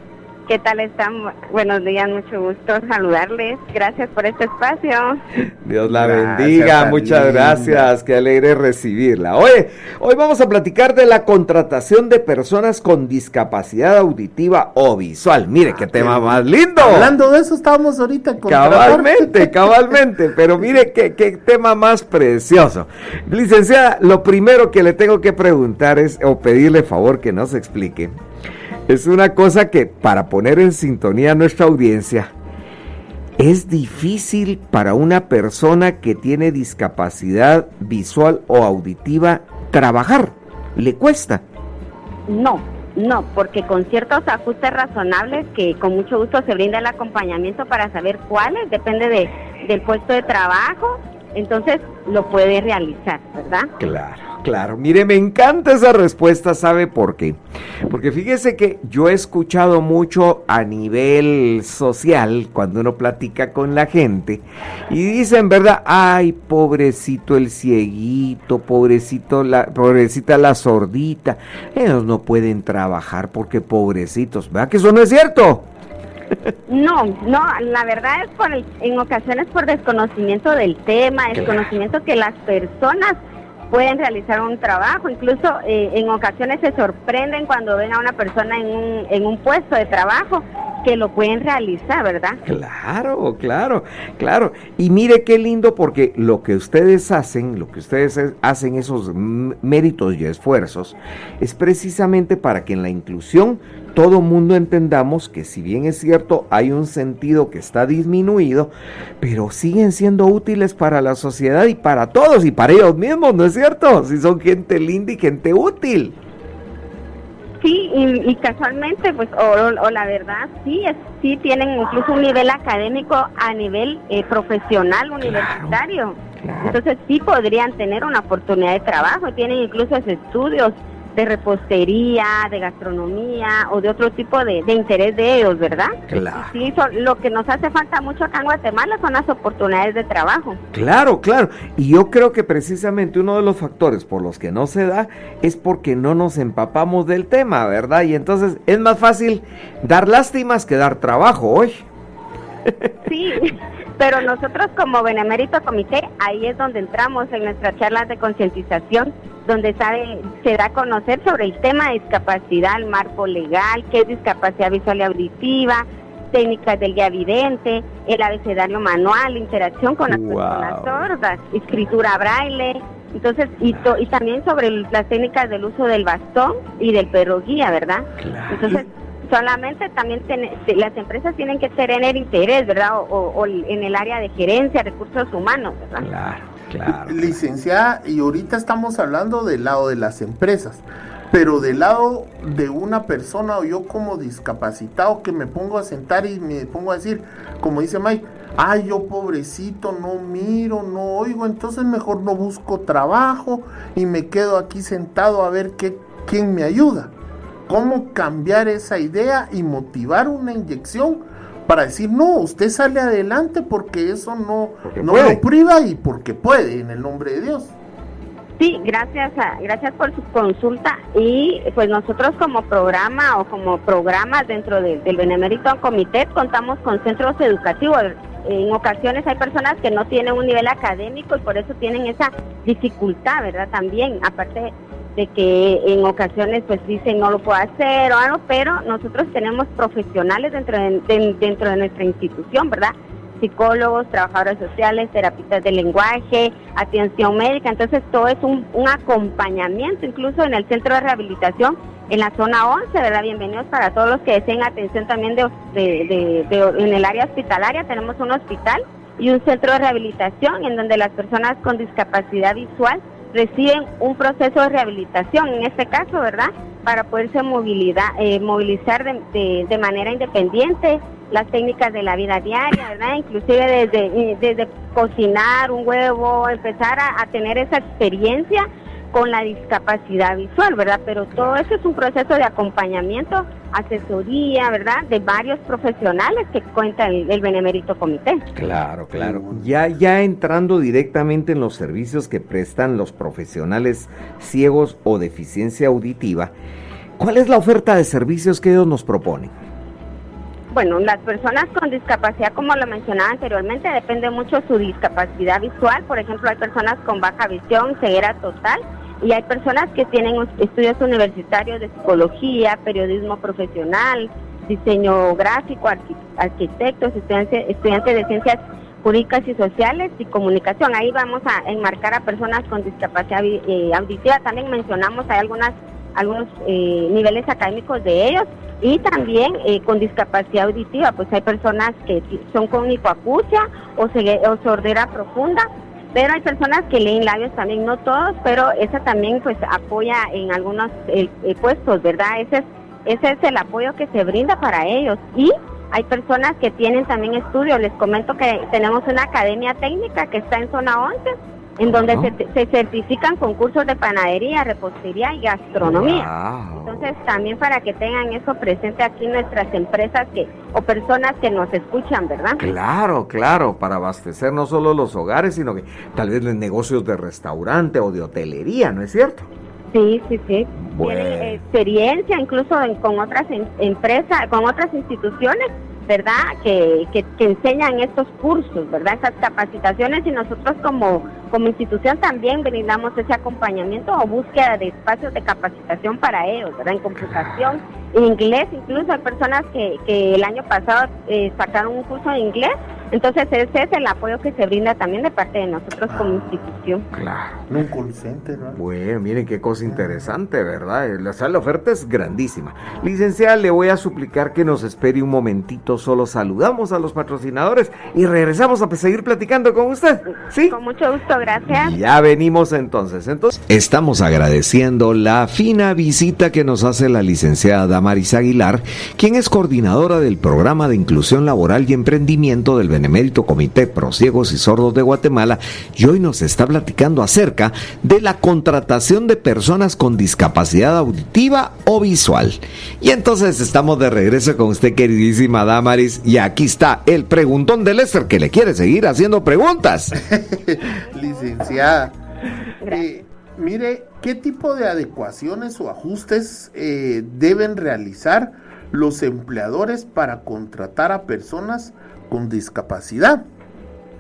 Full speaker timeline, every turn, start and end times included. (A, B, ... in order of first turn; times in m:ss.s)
0:00.5-0:05.2 A
0:05.5-0:17.1 B
0:05.9-0:07.9 C
0:15.8-0:20.0 C
0:18.4-0:28.1 B
0:28.9-0:32.3 B
0:33.4-0:41.4 B
0:42.3-0:53.7 A
0:53.8-1:15.7 B
1:16.7-1:23.2 A
1:21.4-1:21.7 B
1:23.7-1:32.4 A
1:32.5-1:56.2 B
1:57.6-2:20.6 A
2:05.2-2:05.8 B
2:06.4-2:06.8 B
2:16.1-2:16.5 B
2:20.7-2:31.8 B
2:33.1-3:06.1 A
2:50.1-2:51.1 B
2:58.2-2:58.8 B
3:06.0-3:07.4 B
3:06.9-3:27.1 C
3:27.7-3:37.7 C
3:34.9-3:35.4 B
3:38.6-4:48.4 A
4:48.6-4:56.5 B
4:49.1-4:49.7 C
4:57.2-4:59.5 B
5:00.7-5:56.3 A
5:52.0-5:52.3 B
5:55.8-5:57.1 B
5:56.8-6:02.6 A
6:02.6-6:09.5 B
6:09.9-6:37.1 A
6:10.8-6:11.6 B
6:36.1-6:36.7 C
6:37.1-6:37.6 B
6:37.7-6:38.8 C
6:38.8-6:50.8 B
6:39.9-6:40.3 C
6:50.7-6:52.0 A
6:51.7-7:20.2 B
7:20.2-7:22.2 C
7:22.8-7:23.2 A
7:22.9-7:33.4 C